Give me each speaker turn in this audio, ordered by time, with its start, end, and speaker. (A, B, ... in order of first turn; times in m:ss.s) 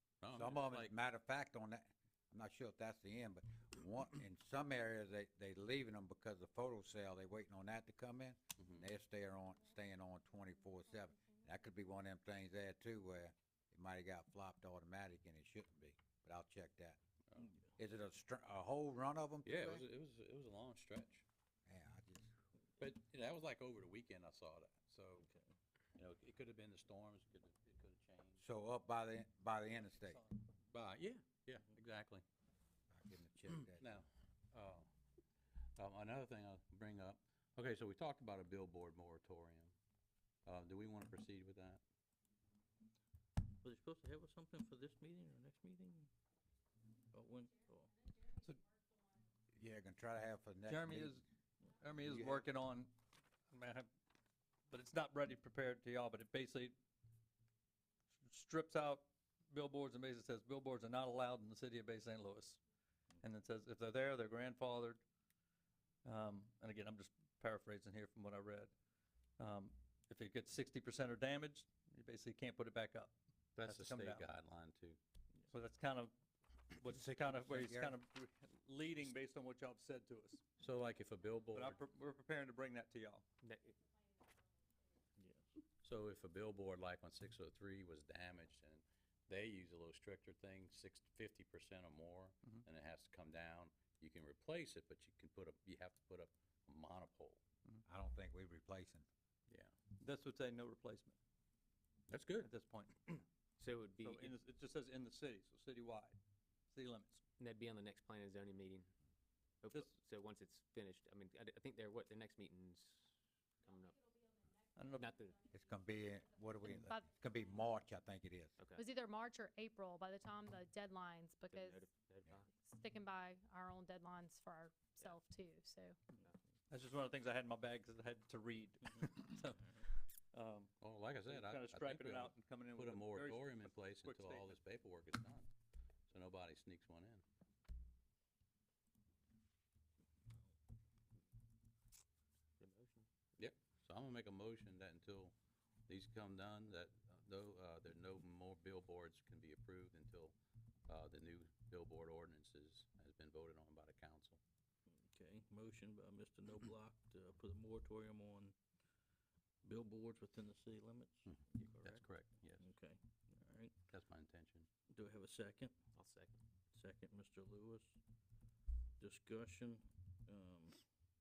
0:00.2-0:00.9 A
0:00.3-0:17.0 B
0:08.6-0:08.8 A
0:17.4-0:17.7 C
0:17.8-0:19.8 B
0:19.4-0:21.2 A
0:21.6-0:22.3 B
0:22.8-0:25.3 A
0:25.2-0:25.5 C
0:25.9-0:28.4 A
0:28.4-0:30.2 B
0:30.7-0:32.2 A
0:32.9-0:34.0 B
0:33.7-0:34.9 A
0:35.8-0:39.7 A
0:40.4-0:41.8 A
0:43.6-0:46.1 C
0:47.1-0:48.2 C
0:49.5-0:51.2 B
0:50.7-0:51.2 D
0:51.8-0:52.9 D
0:52.0-0:52.5 B
0:53.5-0:53.9 D
0:54.7-0:56.7 D
0:58.2-1:02.6 D
1:03.2-1:05.0 D
1:06.0-1:08.7 D
1:09.4-1:14.3 D
1:13.6-1:15.0 A
1:15.5-1:16.1 D
1:16.8-1:20.4 D
1:16.8-1:18.0 B
1:20.6-1:21.8 A
1:21.5-1:23.2 D
1:23.4-1:23.8 E
1:25.2-1:25.5 C
1:25.8-1:37.4 A
1:37.8-1:39.1 B
1:39.5-1:39.7 A
1:40.0-1:41.2 D
1:42.1-1:42.5 A
1:42.4-1:43.0 D
1:43.6-1:44.4 E
1:44.0-1:46.2 D
1:46.7-1:47.2 D
1:47.4-1:48.9 E
1:49.6-1:54.0 E
1:54.8-1:55.1 D
1:55.0-1:55.4 E
1:55.5-1:58.6 B
1:56.8-1:57.0 F
1:58.6-1:59.1 E
1:58.8-2:01.6 F
2:01.5-2:02.6 E
2:02.8-2:05.9 F
2:04.9-2:05.2 E
2:06.7-2:09.6 D
2:10.3-2:10.7 D
2:10.8-2:15.5 A
2:11.2-2:14.6 D
2:16.1-2:17.2 A
2:22.6-2:23.1 E
2:23.4-2:25.3 A
2:25.9-2:30.3 A
2:30.9-2:34.4 A
2:34.9-2:38.5 C
2:39.6-2:42.0 C
2:41.2-2:42.7 A
2:42.6-2:43.8 C
2:43.9-2:44.7 A
2:44.9-2:45.8 C
2:45.9-2:46.4 E
2:46.7-2:48.0 C
2:49.0-2:50.8 C